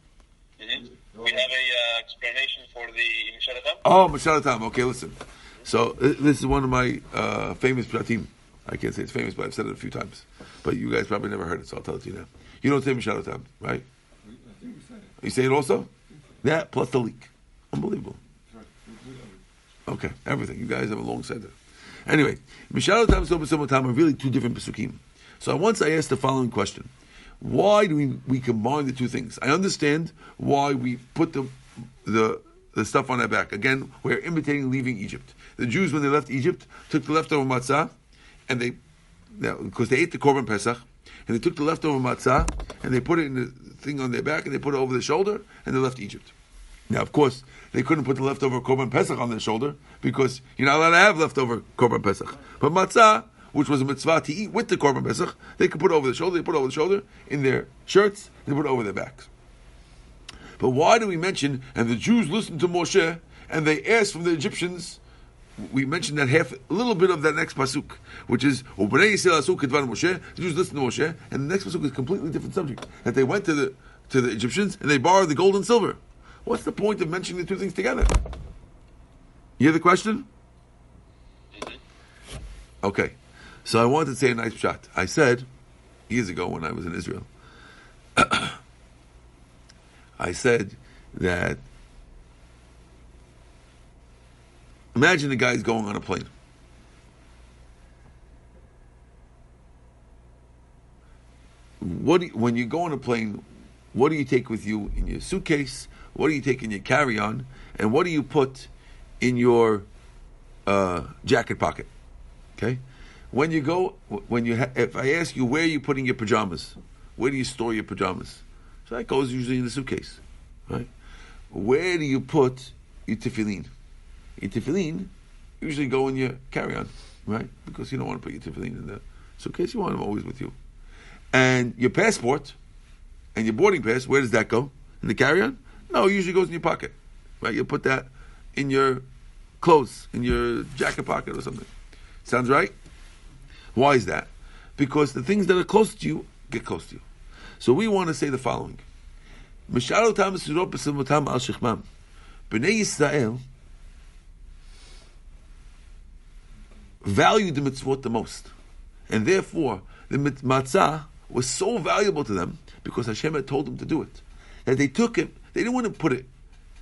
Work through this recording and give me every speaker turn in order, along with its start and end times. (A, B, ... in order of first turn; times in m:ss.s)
0:00.6-0:03.8 A
0:00.7-0:01.5 B
0:03.8-0:13.8 C
0:14.2-0:15.2 B
0:15.2-0:15.9 C
0:16.1-0:16.4 B
0:16.4-0:18.2 C
0:18.4-0:19.4 B
0:19.9-0:21.5 C
0:22.0-0:26.9 C
0:27.4-0:37.9 C
0:38.5-0:38.8 C
0:39.3-0:46.3 C
0:46.9-0:59.3 C
1:00.6-1:05.0 C
1:05.6-1:18.1 C
1:19.6-1:20.3 C
1:21.5-1:21.8 A
1:22.8-1:25.5 C
1:26.1-1:27.3 C
1:28.2-1:28.6 C
1:30.2-1:31.6 C
1:34.9-1:36.3 C
1:41.8-1:49.9 C
1:50.6-1:51.9 C
1:53.3-2:00.9 C
2:01.5-2:03.7 C
2:04.4-2:10.5 C
2:11.3-2:12.6 C
2:13.3-2:19.0 C
2:19.6-2:21.7 C
2:22.2-2:22.7 C
2:23.7-2:27.0 C
2:27.6-2:28.8 C
2:29.7-2:31.8 C
2:32.5-2:33.4 C
2:37.0-2:38.5 C
2:39.1-2:46.3 C